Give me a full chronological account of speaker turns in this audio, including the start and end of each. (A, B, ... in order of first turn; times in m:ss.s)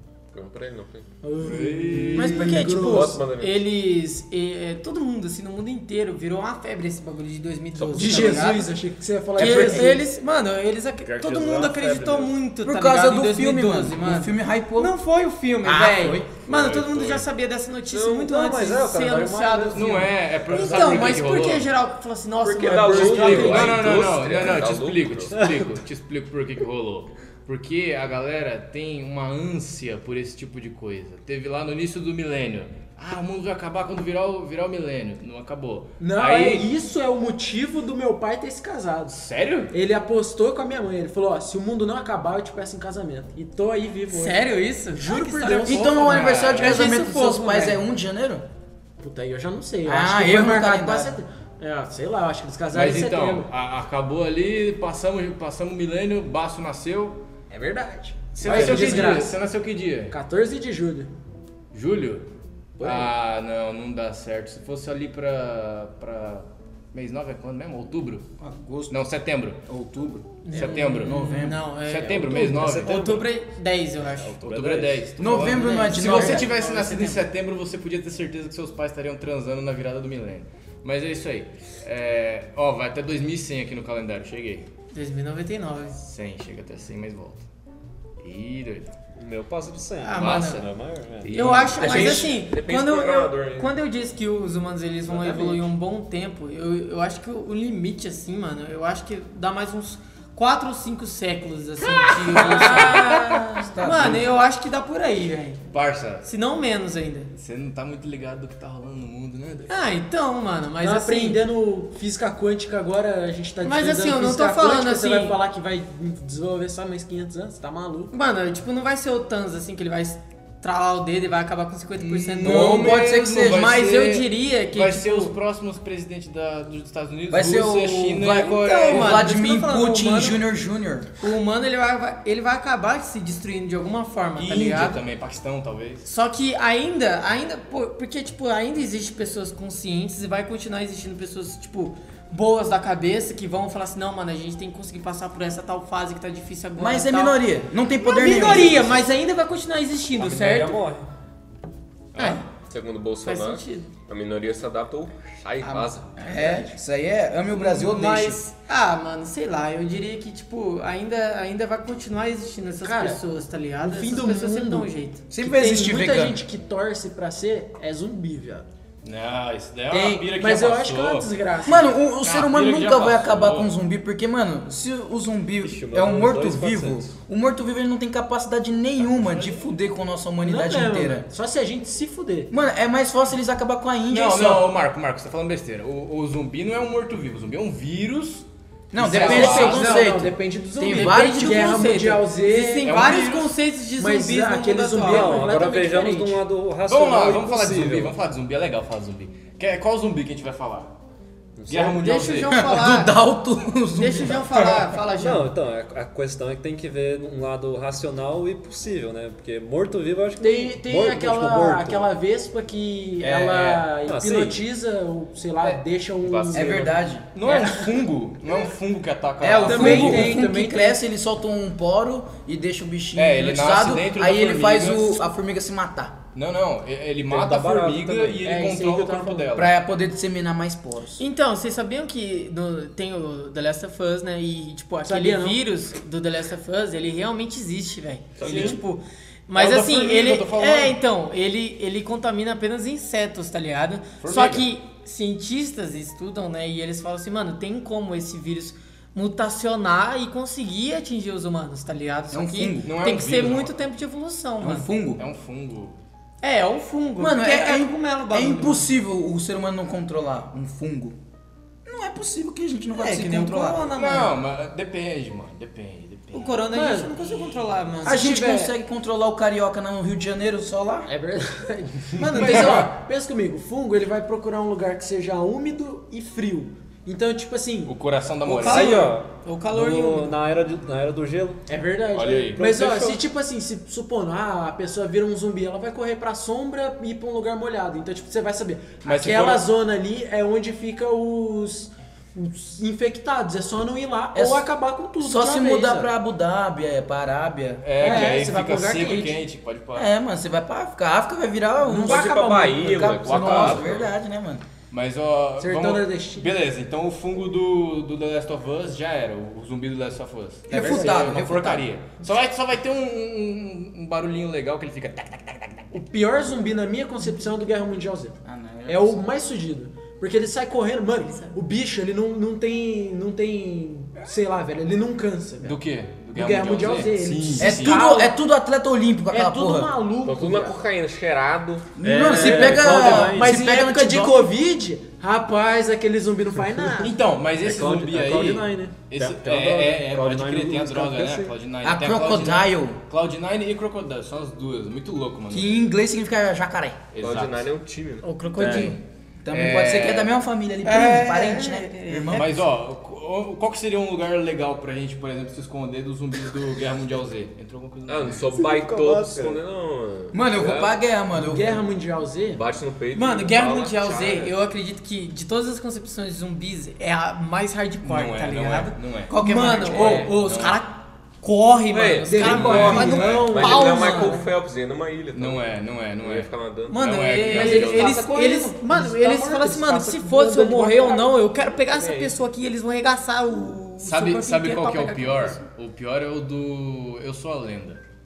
0:00.3-0:01.1 A
0:01.2-0:03.2 B
0:01.4-0:02.6 C
0:02.1-0:08.7 D
0:02.8-0:03.6 A
0:07.8-0:08.5 A
0:07.9-0:10.0 B
0:09.4-0:23.7 D
0:09.4-0:09.9 E
0:11.1-0:12.3 F
0:12.6-0:14.9 E
0:15.6-0:16.3 E
0:16.4-0:17.3 C
0:17.9-0:18.2 A
0:18.0-0:21.3 F
0:19.7-0:21.7 C
0:22.4-0:25.4 A
0:22.8-0:23.8 B
0:23.0-0:36.7 C
0:25.3-0:25.6 F
0:36.0-0:39.2 B
0:39.1-0:39.7 C
0:39.7-0:46.1 B
0:44.1-0:47.8 D
0:45.6-0:48.4 E
0:46.1-0:46.8 C
0:49.0-0:53.5 B
0:49.8-0:51.2 E
0:52.7-0:57.2 C
0:57.5-0:59.4 B
0:58.4-1:00.2 C
0:58.5-0:59.2 F
1:00.1-1:01.1 B
1:01.7-1:02.3 C
1:02.8-1:03.1 B
1:02.8-1:08.2 C
1:08.4-1:09.0 E
1:08.9-1:09.6 C
1:09.7-1:10.3 E
1:10.4-1:14.4 D
1:10.5-1:13.2 C
1:11.0-1:11.6 E
1:12.1-1:13.3 F
1:14.2-1:15.2 F
1:14.4-1:24.7 C
1:15.2-1:16.5 E
1:15.3-1:17.3 D
1:24.9-1:26.0 D
1:26.0-1:27.4 C
1:28.2-1:28.9 C
1:29.2-1:31.4 F
1:30.0-1:30.6 D
1:30.2-1:30.7 C
1:31.2-1:32.3 C
1:31.3-1:45.6 D
1:31.8-1:33.8 A
1:42.1-1:44.2 C
1:43.0-1:44.2 E
1:45.7-1:46.3 C
1:46.2-1:47.3 D
1:47.4-1:49.7 C
1:49.7-1:51.4 D
1:50.8-1:58.1 B
1:53.6-1:55.4 D
1:58.1-2:05.4 D
2:02.0-2:03.9 E
2:02.1-2:09.2 C
2:07.3-2:11.1 E
2:08.4-2:10.4 D
2:11.2-2:15.0 D
2:14.4-2:16.1 C
2:16.0-2:27.4 D
2:26.8-2:29.0 E
2:28.0-2:30.8 D
2:30.2-2:31.1 F
2:32.2-2:32.4 C
2:32.2-2:32.4 D
2:32.7-2:36.2 A
2:33.2-2:33.9 D
2:36.1-2:38.4 E
2:36.4-2:36.6 D
2:37.5-2:45.2 D
2:42.8-2:43.2 B
2:43.8-2:48.7 B
2:45.3-2:46.4 E
2:49.0-2:51.3 C
2:49.9-2:51.9 B
2:51.6-3:01.3 E
2:52.2-2:53.7 C
2:55.6-2:57.1 F
2:59.0-2:59.7 C
3:00.4-3:02.5 B
3:02.5-3:04.7 E
3:04.1-3:10.0 C
3:08.9-3:11.9 E
3:09.1-3:13.1 B
3:10.9-3:15.5 D
3:12.8-3:13.5 C
3:14.0-3:16.4 B
3:15.0-3:18.2 F
3:16.9-3:20.9 C
3:21.6-3:22.2 F
3:21.7-3:22.6 C
3:22.0-3:23.2 D
3:22.5-3:24.9 E
3:23.9-3:25.5 D
3:25.1-3:32.1 F
3:30.4-3:37.0 B
3:33.2-3:33.9 C
3:34.0-3:34.6 F
3:36.2-3:36.9 A
3:36.5-3:37.7 E
3:37.3-3:40.4 C
3:39.4-3:46.2 E
3:39.6-3:41.0 B
3:43.2-3:45.2 C
3:46.4-3:49.7 C
3:47.3-3:48.5 F
3:48.4-3:49.6 B
3:49.5-3:51.2 E
3:51.2-4:14.9 D
3:55.0-3:55.6 B
3:58.4-3:58.8 A
3:58.4-3:58.8 C
3:59.5-4:01.0 C
4:04.2-4:04.7 C
4:12.3-4:12.9 E
4:12.8-4:13.8 C
4:14.6-4:15.2 E
4:15.2-4:16.0 C
4:16.4-4:18.9 D
4:17.2-4:21.2 E
4:21.8-4:23.9 E
4:23.0-4:24.4 D
4:23.9-4:26.7 C
4:26.3-4:28.2 D
4:26.7-4:27.2 B
4:28.0-4:28.7 B
4:28.0-4:31.1 E
4:31.1-4:38.0 B
4:32.2-4:32.8 D
4:32.3-4:32.9 C
4:32.4-4:32.8 E
4:37.9-4:39.1 C
4:38.5-4:40.4 D
4:38.5-4:41.6 F
4:41.7-4:56.1 B
4:42.1-4:42.7 C
4:42.6-4:43.2 F
4:49.0-4:49.6 C
4:54.3-4:54.7 E
4:55.2-4:58.4 E
4:57.8-5:00.1 C
4:58.0-4:59.4 B
5:00.0-5:04.6 E
5:01.8-5:03.6 B
5:02.0-5:04.1 A
5:03.2-5:04.0 C
5:04.9-5:16.0 C
5:05.6-5:06.6 B
5:10.7-5:11.4 B
5:10.7-5:11.9 E
5:15.9-5:25.8 B
5:18.4-5:19.2 E
5:21.3-5:21.6 D
5:25.6-5:28.1 C
5:26.3-5:28.4 B
5:27.6-5:29.9 E
5:29.3-5:30.8 B
5:30.2-5:31.9 A
5:32.0-5:34.5 E
5:32.0-5:33.6 F
5:32.3-5:37.2 B
5:36.9-5:45.7 C
5:37.6-5:41.6 F
5:41.8-5:43.0 E
5:45.5-5:47.0 E
5:47.1-5:47.6 C
5:47.2-5:48.3 A
5:48.2-5:49.0 D
5:48.6-5:49.0 C
5:48.6-5:48.9 E
5:49.4-5:52.6 E
5:49.5-5:50.3 C
5:50.8-5:52.6 D
5:52.3-5:58.5 C
5:58.1-6:01.0 A
5:58.5-5:59.6 F
6:00.3-6:01.8 E
6:01.3-6:02.6 B
6:02.5-6:04.6 A
6:03.1-6:14.5 D
6:08.0-6:10.8 C
6:09.3-6:10.4 E
6:11.9-6:16.9 A
6:12.3-6:14.4 B
6:12.5-6:13.3 C
6:12.7-6:14.4 E
6:15.3-6:18.2 C
6:16.9-6:25.6 D
6:17.5-6:21.3 B
6:21.8-6:22.4 A
6:24.0-6:28.0 C